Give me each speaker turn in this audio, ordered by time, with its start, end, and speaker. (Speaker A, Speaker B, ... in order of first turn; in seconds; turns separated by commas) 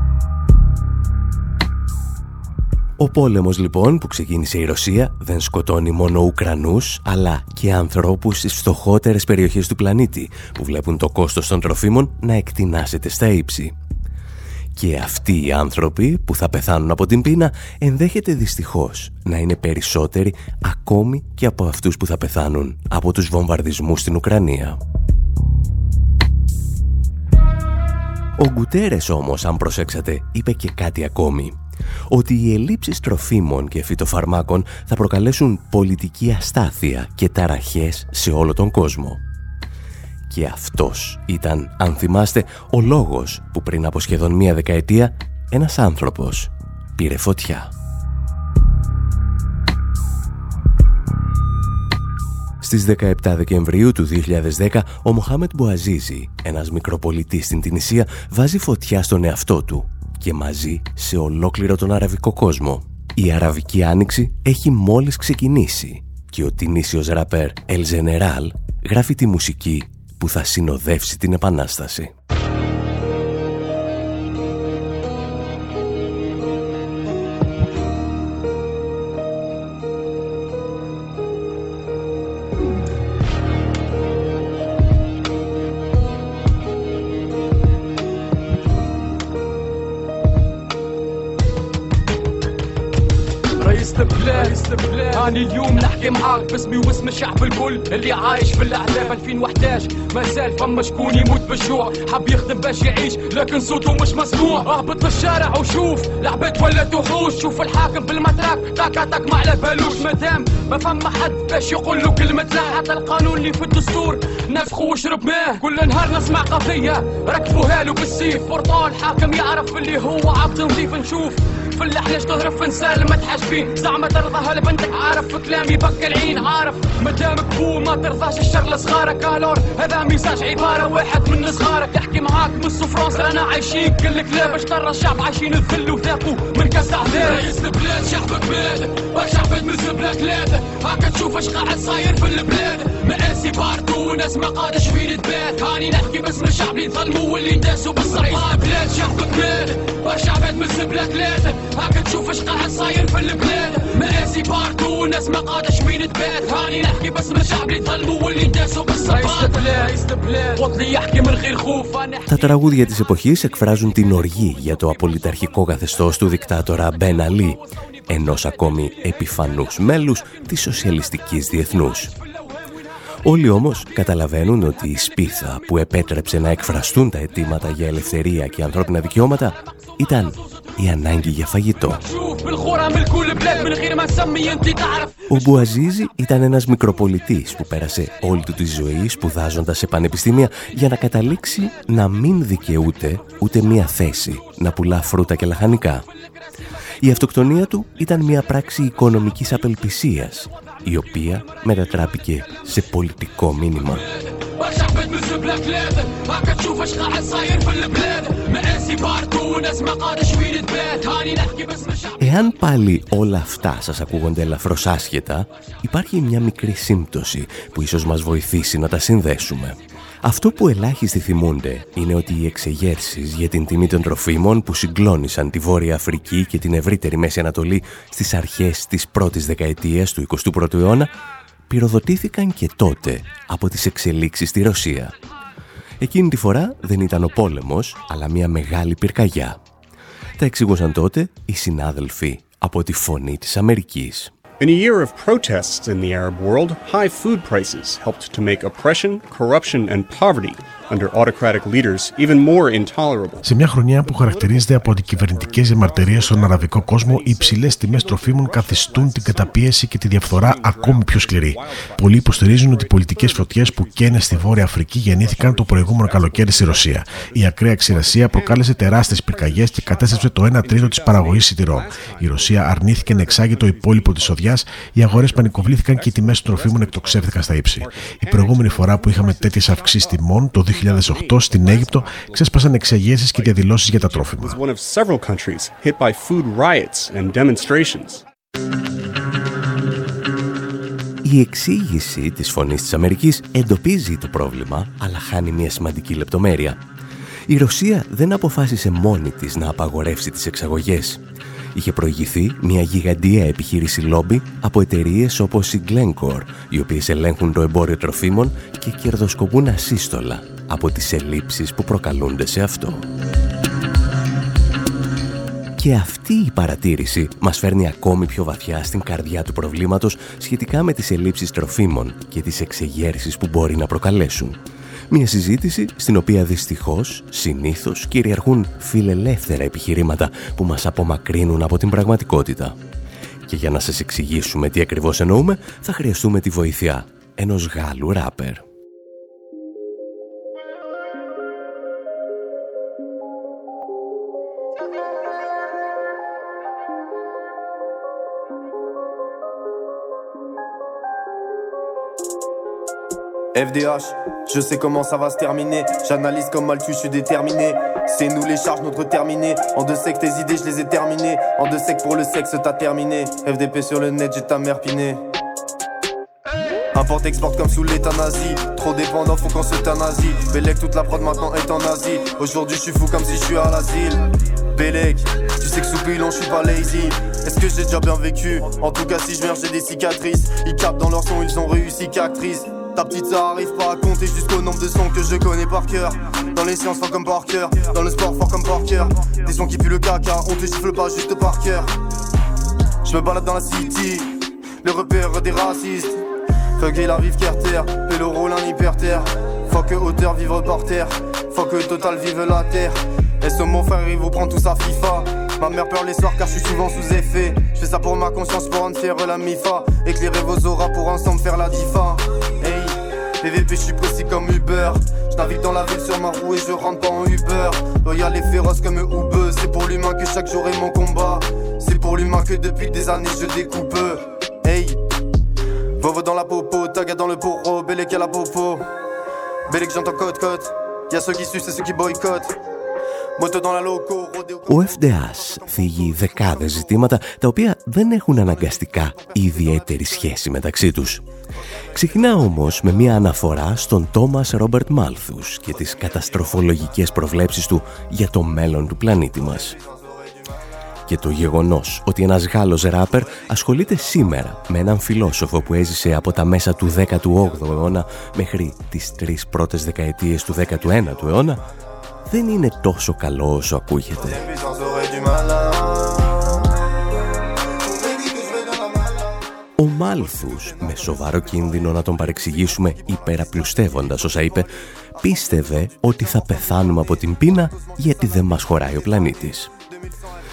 Speaker A: 3.0-13.7, Speaker A: 14.8-24.8, Speaker A: 28.4-31.6, Speaker A: 32.1-39.2, Speaker A: 40.3-47.7, Speaker A: 52.6-72.1, Speaker B: 93.6-162.3, Speaker A: 162.3-172.1, Speaker A: 173.2-182.0, Speaker B: 182.0-185.3, Speaker A: 185.3-196.1, Speaker A: 197.0-204.1, Speaker B: 204.3-212.3, Speaker A: 212.2-231.1, Speaker A: 231.7-235.1, Speaker A: 236.0-239.6, Speaker A: 240.4-244.3, Speaker C: 244.6-253.5, Speaker D: 253.4-284.6, Speaker C: 254.0-288.2, Speaker A: 291.2-296.8, Speaker A: 297.5-301.2, Speaker A: 301.7-313.1, Speaker A: 315.8-332.8, Speaker A: 333.5-338.6, Speaker E: 353.6-365.2, Speaker E: 366.9-391.9, Speaker E: 393.1-396.2, Speaker E: 396.8-425.0, Speaker E: 426.0-428.9, Speaker E: 429.7-432.6, Speaker E: 433.4-437.0, Speaker A: 434.7-441.2, Speaker E: 438.7-440.2, Speaker A: 441.9-449.8, Speaker E: 442.0-442.4, Speaker E: 446.1-446.4, Speaker E: 449.3-450.4, Speaker A: 451.1-461.6, Speaker A: 462.3-464.4, Speaker E: 464.2-466.3, Speaker E: 467.8-469.2, Speaker A: 469.8-479.7, Speaker E: 470.2-471.6, Speaker E: 475.2-478.8